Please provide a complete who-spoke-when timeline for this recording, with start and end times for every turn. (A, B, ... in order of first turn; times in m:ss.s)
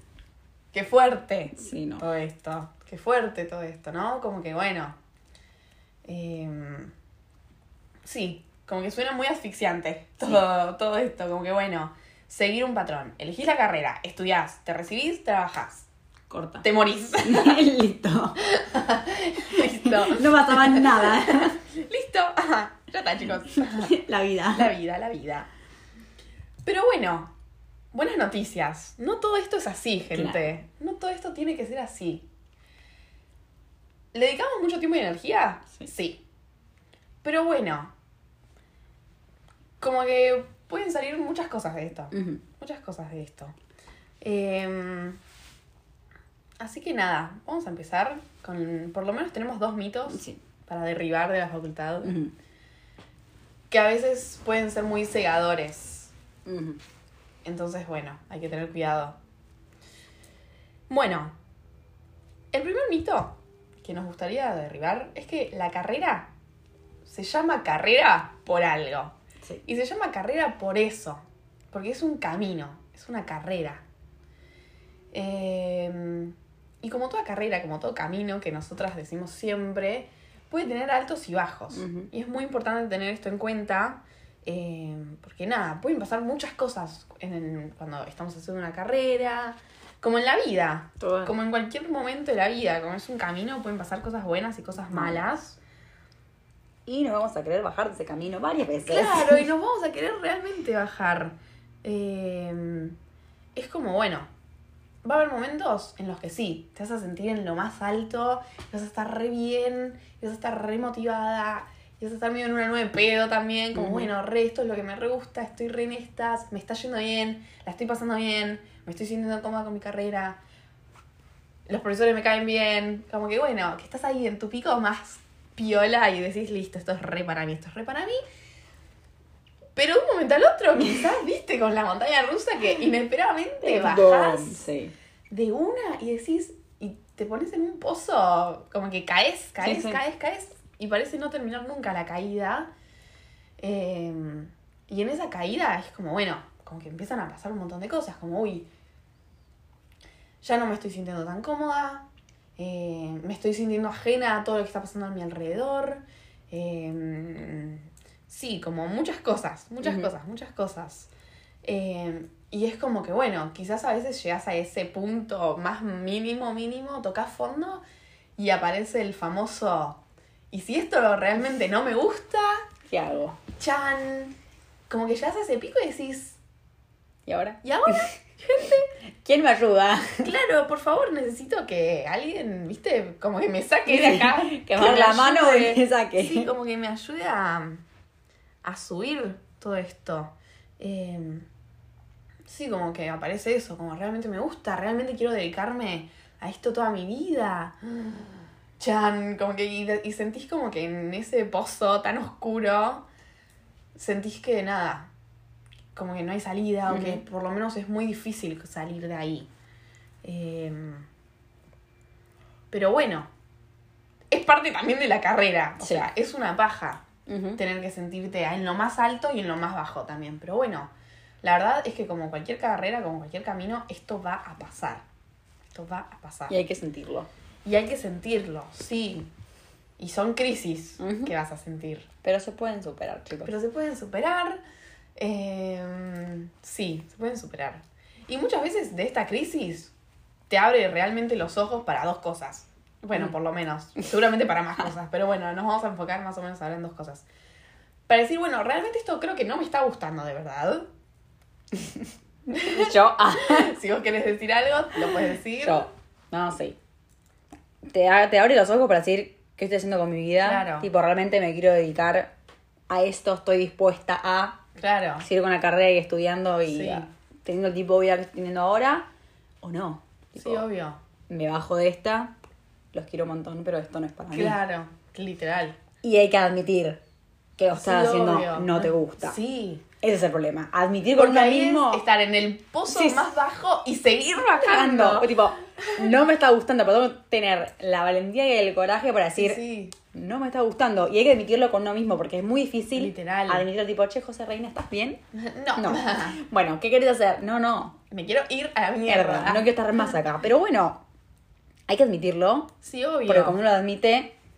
0:00.7-0:05.0 A
0:01.6-0:02.0 B
0:06.0-0:06.9 A
0:08.0-0:15.9 A
0:16.3-0:16.6 B
0:16.6-0:17.6 A
0:17.2-0:18.4 B
0:18.4-0:23.9 A
0:19.5-0:21.6 B
0:23.6-0:24.7 B
0:24.5-0:25.5 A
0:26.6-0:27.3 A
0:27.9-0:32.3 A
0:30.1-0:30.4 B
0:34.1-0:36.2 A
0:37.2-0:37.9 A
0:39.8-0:43.6 A
0:42.1-0:42.4 B
0:44.2-0:45.2 A
0:46.6-0:52.2 A
0:50.1-0:50.4 B
0:52.0-0:52.4 B
0:53.7-0:56.1 A
0:56.5-0:56.8 B
0:57.4-0:59.2 A
1:00.9-1:01.4 A
1:02.5-1:06.3 A
1:07.0-1:13.8 A
1:15.1-1:35.6 A
1:21.7-1:22.1 B
1:31.0-1:31.4 B
1:34.9-1:35.2 B
1:36.9-1:39.4 B
1:38.9-1:43.0 A
1:43.6-1:44.3 A
1:45.0-2:00.4 A
1:53.7-1:54.1 B
2:01.7-2:08.2 A
2:09.8-2:14.6 A
2:13.6-2:14.9 B
2:15.3-2:22.7 A
2:19.6-2:20.0 B
2:23.6-2:28.7 A
2:30.4-2:32.1 A
2:32.6-2:41.1 A
2:39.8-2:40.1 B
2:41.6-2:47.8 A
2:48.4-2:52.7 A
2:52.9-2:53.4 B
2:53.6-2:54.3 A
2:54.9-2:56.4 A
2:57.3-2:58.1 B
2:57.6-2:58.9 A
2:59.2-3:00.3 B
3:00.2-3:07.8 A
3:03.9-3:06.5 B
3:08.6-3:11.5 A
3:12.5-3:23.0 A
3:24.0-3:25.1 A
3:25.9-3:29.5 A
3:26.9-3:27.2 B
3:30.2-3:31.1 A
3:32.7-3:33.3 A
3:34.3-3:40.9 A
3:35.8-3:36.1 B
3:37.3-3:37.6 B
3:41.4-3:45.0 A
3:45.7-3:46.6 A
3:46.5-3:47.3 B
3:47.6-3:49.3 A
3:50.0-3:52.1 A
3:51.0-3:51.3 B
3:52.2-3:53.5 B
3:53.4-3:54.6 A
3:55.2-3:59.9 A
4:00.5-4:07.2 A
4:08.1-4:10.9 A
4:11.7-4:13.8 B
4:12.5-4:15.9 A
4:15.6-4:16.8 B
4:17.8-4:22.3 B
4:20.4-4:20.9 A
4:22.9-4:24.6 B
4:24.8-4:25.3 A
4:25.2-4:29.1 B
4:26.7-4:27.1 A
4:29.6-4:30.7 B
4:30.4-4:31.0 A
4:31.3-4:32.4 B
4:32.9-4:34.6 B
4:34.3-4:35.8 A
4:36.0-4:37.0 B
4:37.6-4:39.4 B
4:37.8-4:39.8 A
4:40.0-4:42.1 B
4:41.1-4:46.1 A
4:42.9-4:43.3 B
4:44.6-4:55.2 B
4:49.4-4:50.0 A
4:53.0-4:53.6 A
4:55.3-4:56.4 A
4:55.8-4:58.0 B
4:58.1-5:00.2 A
4:59.1-5:01.0 B
5:01.9-5:02.7 B
5:02.8-5:03.6 A
5:03.3-5:04.3 B